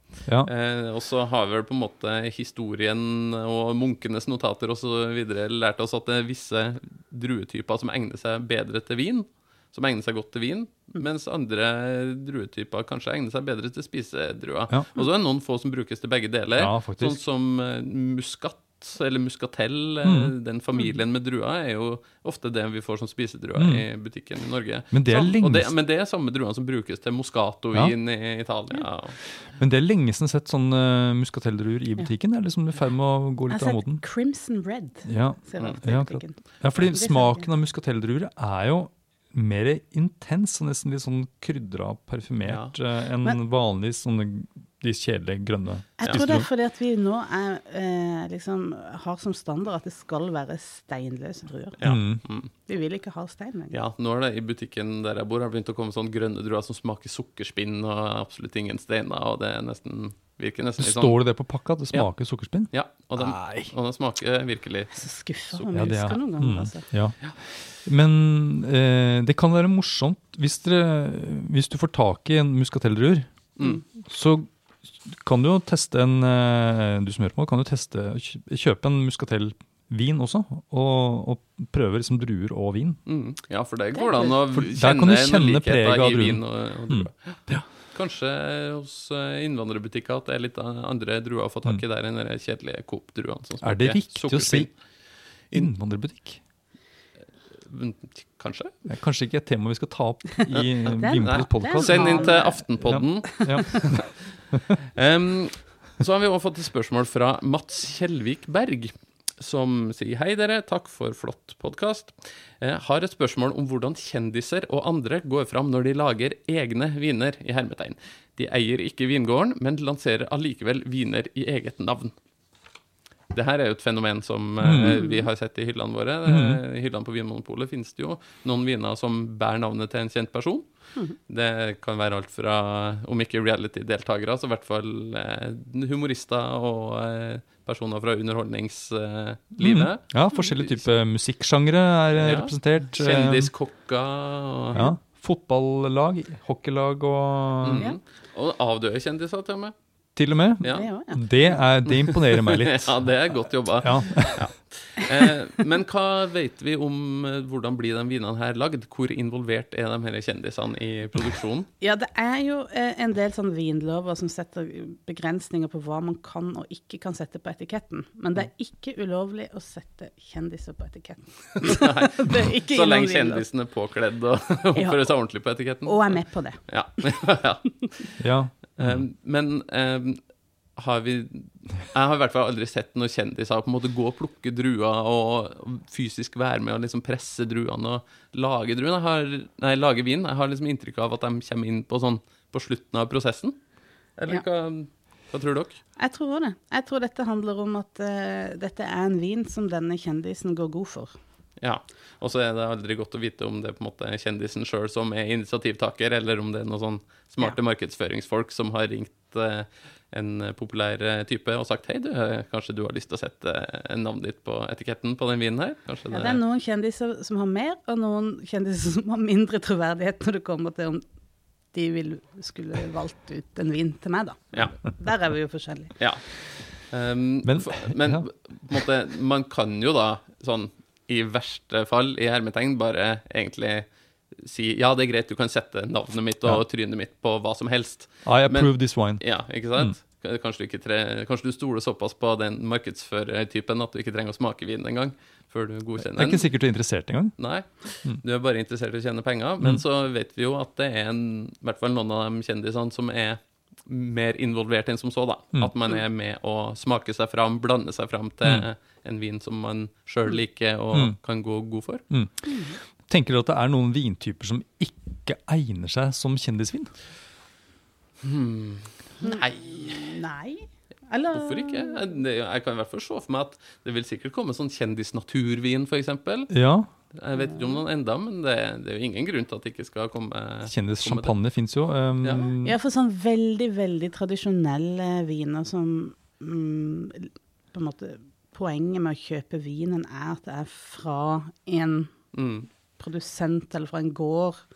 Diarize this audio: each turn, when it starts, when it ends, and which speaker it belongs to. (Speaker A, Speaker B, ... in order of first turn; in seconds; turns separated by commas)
Speaker A: 0.4-29.2, Speaker B: 16.6-17.2, Speaker B: 20.0-20.3, Speaker B: 23.6-23.9, Speaker B: 24.9-25.7, Speaker B: 29.6-34.0, Speaker C: 33.5-37.5, Speaker B: 35.0-46.5, Speaker A: 42.4-42.7, Speaker C: 46.0-51.8, Speaker A: 46.0-46.3, Speaker A: 51.8-52.5, Speaker B: 51.8-52.2, Speaker C: 52.7-53.8, Speaker A: 53.7-61.2, Speaker B: 60.8-63.7, Speaker A: 62.7-65.0, Speaker C: 65.0-66.8, Speaker B: 65.7-67.3, Speaker B: 67.8-73.3, Speaker B: 74.0-74.5, Speaker B: 75.0-83.0, Speaker A: 83.1-87.4, Speaker C: 84.0-84.3, Speaker B: 84.5-87.6, Speaker A: 87.9-94.7, Speaker B: 93.6-94.7, Speaker B: 95.5-96.4, Speaker A: 97.6-98.7, Speaker B: 98.9-104.0, Speaker A: 100.5-104.1, Speaker C: 101.0-102.6, Speaker A: 105.0-122.1, Speaker A: 123.3-130.7, Speaker B: 124.6-125.1, Speaker B: 126.3-126.6, Speaker A: 131.3-140.8, Speaker B: 139.6-143.5, Speaker A: 142.2-144.8, Speaker B: 144.8-147.9, Speaker A: 147.6-149.7, Speaker B: 150.2-152.9, Speaker A: 150.6-150.9, Speaker C: 150.7-151.3, Speaker A: 151.9-161.7, Speaker B: 153.8-154.4, Speaker C: 161.8-173.4, Speaker A: 171.6-177.7, Speaker C: 174.8-175.2, Speaker C: 175.8-176.6, Speaker B: 178.2-179.0, Speaker A: 178.8-180.2, Speaker A: 180.8-193.6, Speaker A: 194.2-195.8, Speaker C: 196.0-201.1, Speaker A: 201.6-216.4, Speaker C: 216.1-221.0, Speaker C: 221.7-226.0, Speaker A: 226.9-233.9, Speaker B: 227.4-228.2, Speaker A: 234.4-246.5, Speaker B: 238.2-239.2, Speaker B: 246.0-247.4, Speaker A: 247.4-262.0, Speaker B: 260.9-261.2, Speaker B: 262.1-266.9, Speaker C: 262.5-262.8, Speaker A: 268.2-270.2, Speaker C: 269.2-272.1, Speaker A: 271.3-276.5, Speaker B: 276.5-276.9, Speaker A: 277.1-281.4, Speaker B: 280.7-282.8, Speaker A: 282.2-282.5, Speaker C: 282.6-292.2, Speaker A: 292.3-292.7, Speaker C: 293.0-294.7